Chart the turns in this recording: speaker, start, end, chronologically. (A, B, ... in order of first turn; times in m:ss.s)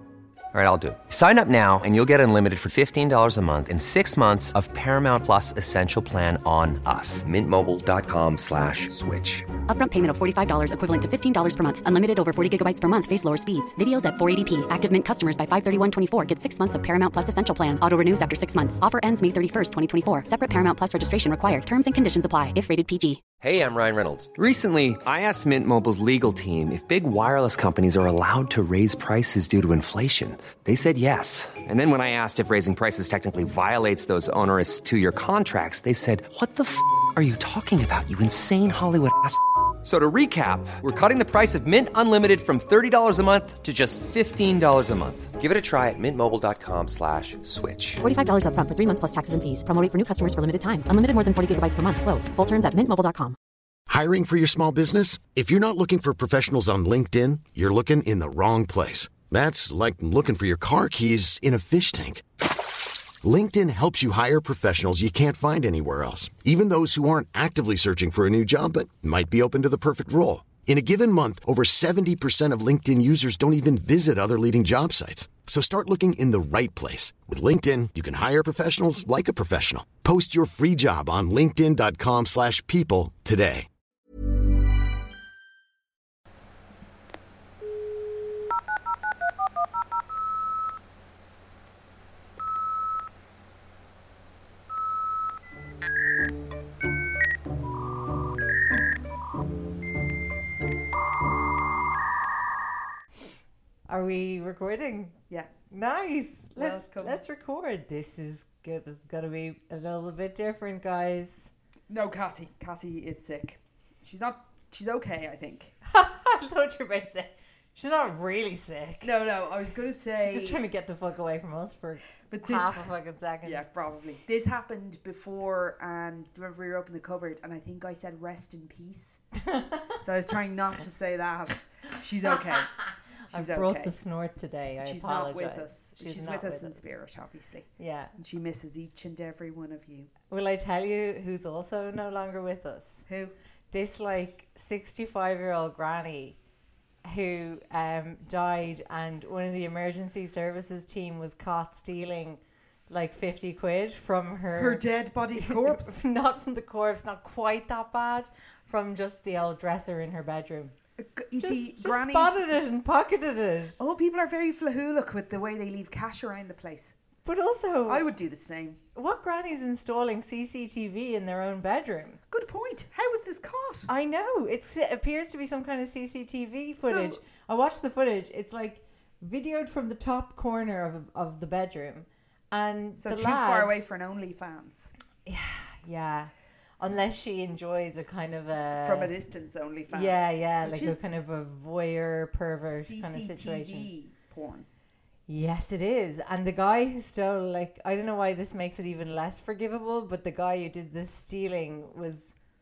0:00.5-0:09.5 A
0:09.7-0:23.2 B
0:23.4-0:48.0 A
0:48.0-0:53.4 B
0:53.9-1:02.2 C
1:03.2-1:23.7 C
1:43.9-1:51.5 D
1:46.6-1:47.2 E
1:51.9-1:55.7 E
1:55.8-1:59.1 D
1:59.0-2:00.6 E
2:00.2-2:03.6 D
2:02.3-2:02.9 E
2:03.4-2:09.2 E
2:09.5-2:10.0 D
2:10.0-2:12.7 E
2:12.2-2:16.8 D
2:13.3-2:14.0 E
2:14.8-2:20.1 E
2:17.8-2:18.2 D
2:20.3-2:23.1 D
2:23.1-2:23.4 E
2:23.7-2:26.4 D
2:27.0-2:40.8 D
2:34.5-2:36.0 E
2:41.0-2:42.6 E
2:41.4-2:43.8 D
2:43.8-2:47.0 E
2:47.2-2:48.1 D
2:47.9-2:48.8 E
2:49.0-2:52.2 D
2:52.3-2:53.9 E
2:53.9-3:03.8 D
2:56.8-2:57.2 E
3:03.0-3:04.9 E
3:05.2-3:09.1 D
3:08.8-3:11.2 E
3:09.9-3:13.9 D
3:12.7-3:14.7 E
3:15.3-3:22.3 D